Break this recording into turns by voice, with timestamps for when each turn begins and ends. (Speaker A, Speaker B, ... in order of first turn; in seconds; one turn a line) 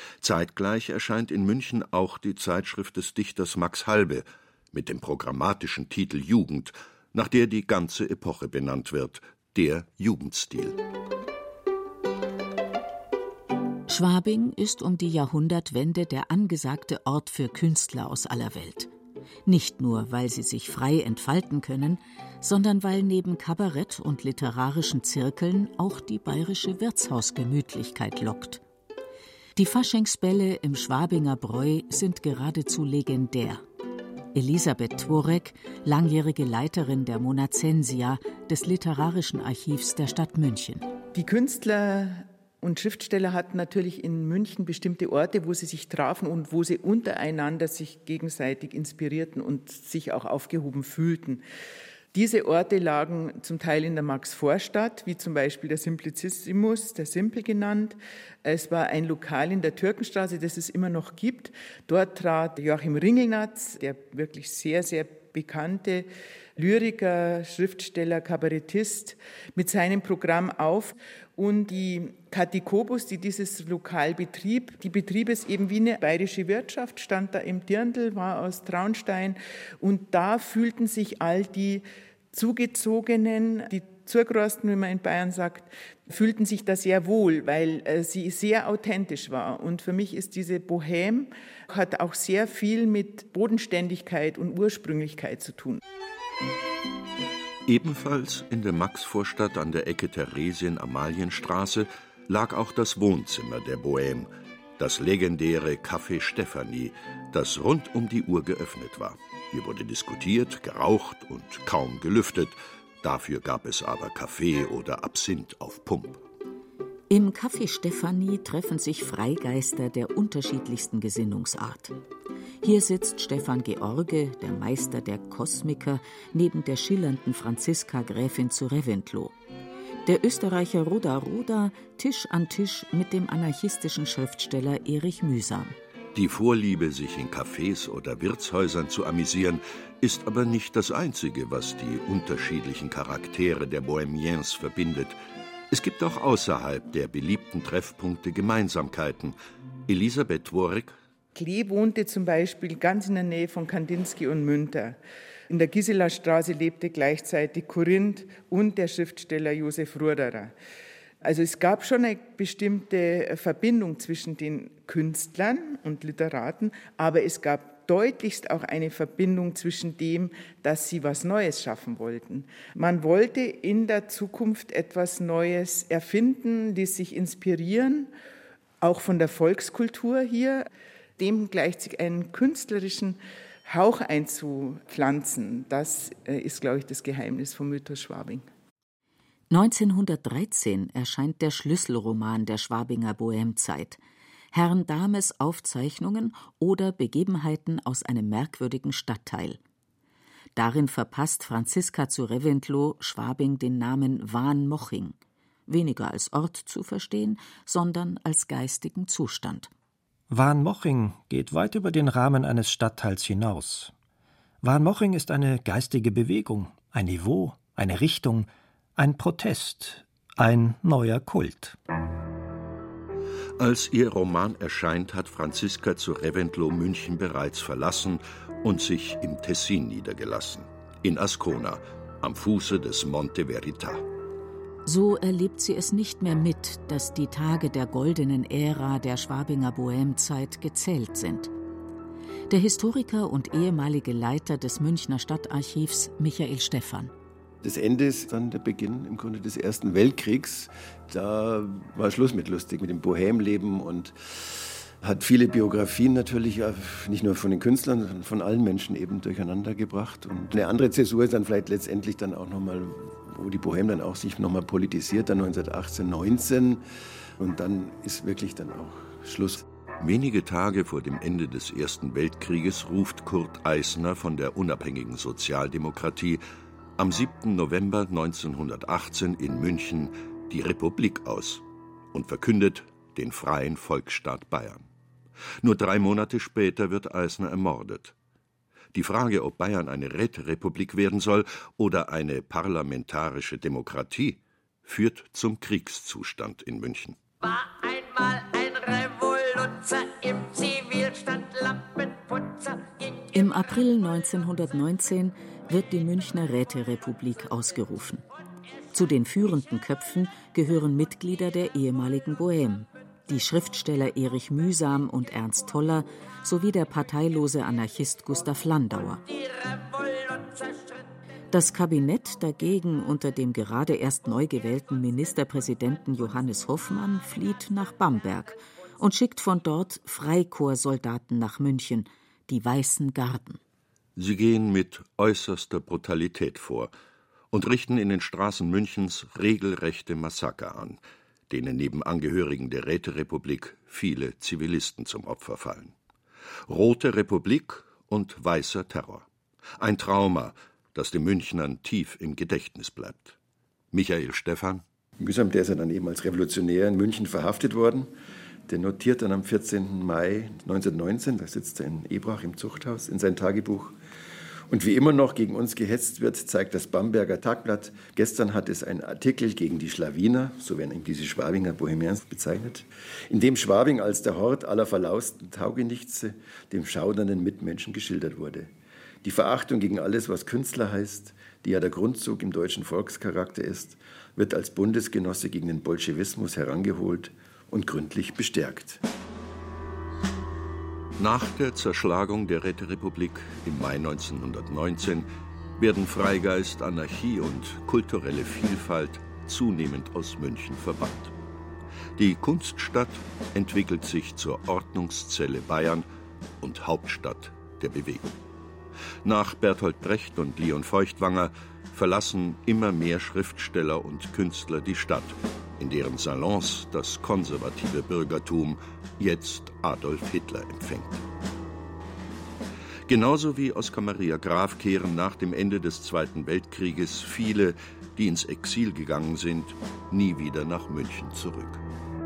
Speaker A: 0.2-10.8
Speaker B: 13.9-18.9
Speaker B: 19.4-28.6
Speaker B: 29.6-33.6
Speaker B: 34.3-40.9
Speaker C: 41.1-51.4
Speaker C: 52.1-95.8
Speaker A: 97.7-116.2
Speaker B: 117.1-121.9
Speaker B: 122.6-129.3
Speaker B: 130.0-135.8
Speaker A: 136.1-145.2
Speaker A: 145.7-149.3
Speaker A: 149.9-150.9
Speaker C: 151.3-155.0
Speaker C: 155.5-160.5
Speaker C: 161.2-178.1
Speaker C: 178.8-188.4
Speaker B: 189.5-194.0
Speaker B: 194.5-199.6
Speaker B: 200.6-205.2
Speaker B: 205.7-209.7
Speaker D: 210.3-213.9
Speaker D: 214.6-221.8
Speaker A: 223.6-234.0
Speaker B: 234.8-241.5
Speaker B: 242.5-247.1
Speaker E: 247.6-266.8
Speaker E: 267.4-269.6
Speaker A: 270.0-276.4
Speaker A: 277.0-284.9
Speaker A: 285.6-288.1
Speaker A: 288.9-297.2
Speaker F: 297.4-303.2
Speaker B: 303.3-308.2
Speaker B: 308.9-319.2
Speaker F: 319.3-321.0
Speaker B: 321.5-333.6
Speaker A: 334.1-336.9
Speaker A: 337.5-345.9
Speaker A: 346.7-349.2
Speaker A: 349.8-353.4
Speaker A: 353.9-354.8
Speaker E: 355.2-358.1
Speaker E: 358.7-363.9
Speaker E: 364.7-378.7
Speaker E: 379.2-389.0
Speaker A: 391.2-401.3
Speaker A: 402.2-406.1
Speaker A: 406.6-408.4
Speaker A: 409.2-421.2
Speaker A: 423.1-431.8